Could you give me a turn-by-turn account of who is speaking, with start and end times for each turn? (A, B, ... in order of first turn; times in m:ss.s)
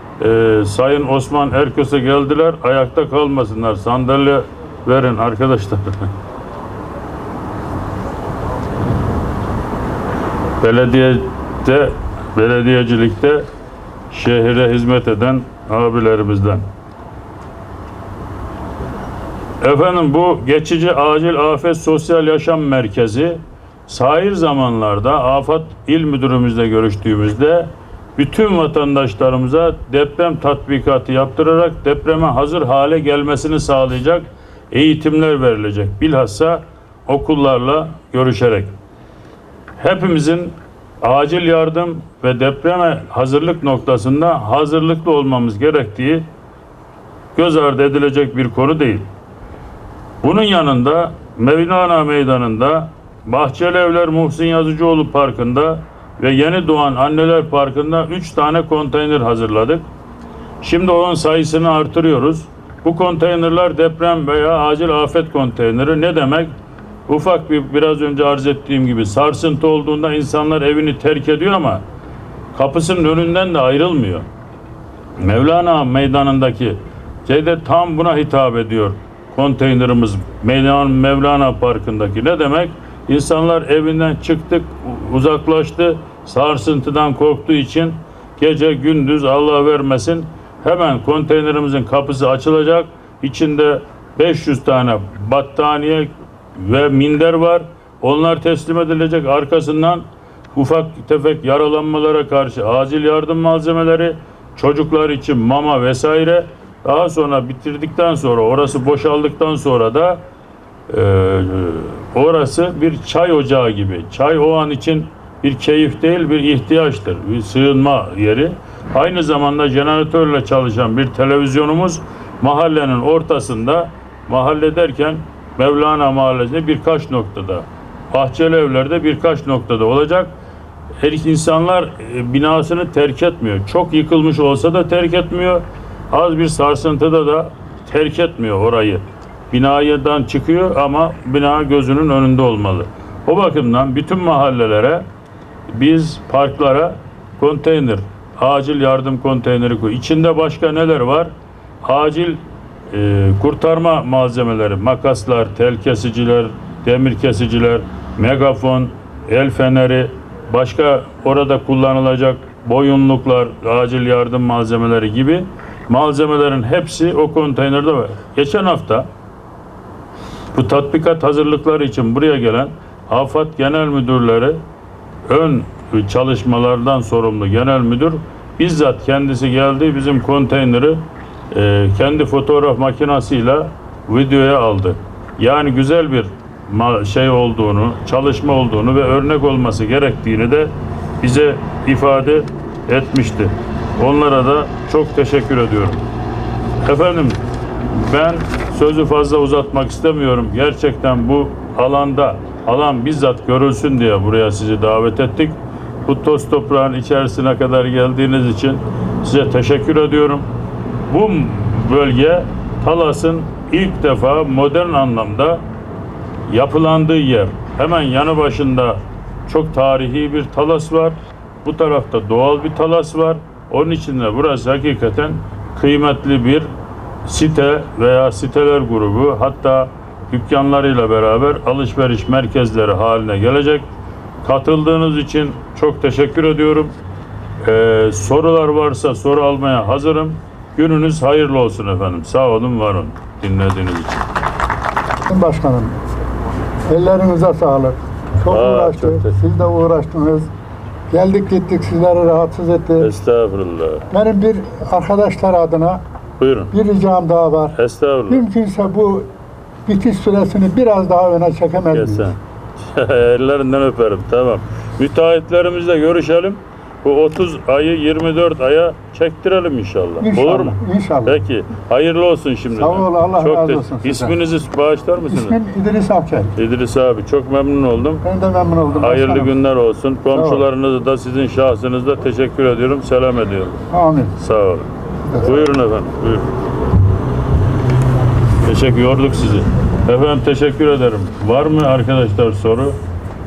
0:00.2-0:06.1 A
0:10.6-0:13.5 A
0:14.1-0:16.6 A
0:19.6-0:38.7 A
0:39.8-0:46.3 A
0:47.3-0:49.1 A
0:50.2-0:59.8 A
1:00.6-1:06.5 A
1:07.1-1:11.8 A
1:12.5-1:14.3 A
1:15.2-1:50.2 A
1:50.9-2:10.3 A
2:11.0-2:25.1 A
2:25.7-2:49.1 A
2:50.5-2:54.6 A
2:55.3-3:16.0 A
3:16.8-3:30.5 A
3:31.1-3:35.6 A
3:36.5-3:46.7 A
3:47.2-3:53.9 A
3:54.4-3:56.9 A
3:57.6-4:04.3 A
4:05.3-4:05.9 B
4:06.9-4:10.5 B
4:08.5-4:09.3 A
4:11.1-4:13.1 B
4:13.0-4:14.1 A
4:14.1-4:16.0 B
4:16.4-4:16.7 A
4:16.7-4:17.7 B
4:17.7-4:18.5 A
4:18.3-4:19.3 B
4:19.9-4:22.3 B
4:21.9-4:22.4 A
4:22.9-4:35.6 A
4:30.2-4:31.4 B
4:32.8-4:34.4 B
4:35.3-4:36.5 B
4:36.5-4:38.2 A
4:38.2-4:39.5 B
4:38.9-4:43.8 A
4:40.3-4:40.6 B
4:43.9-4:44.3 B
4:44.4-4:46.6 A
4:45.3-4:45.7 B
4:48.6-4:53.0 A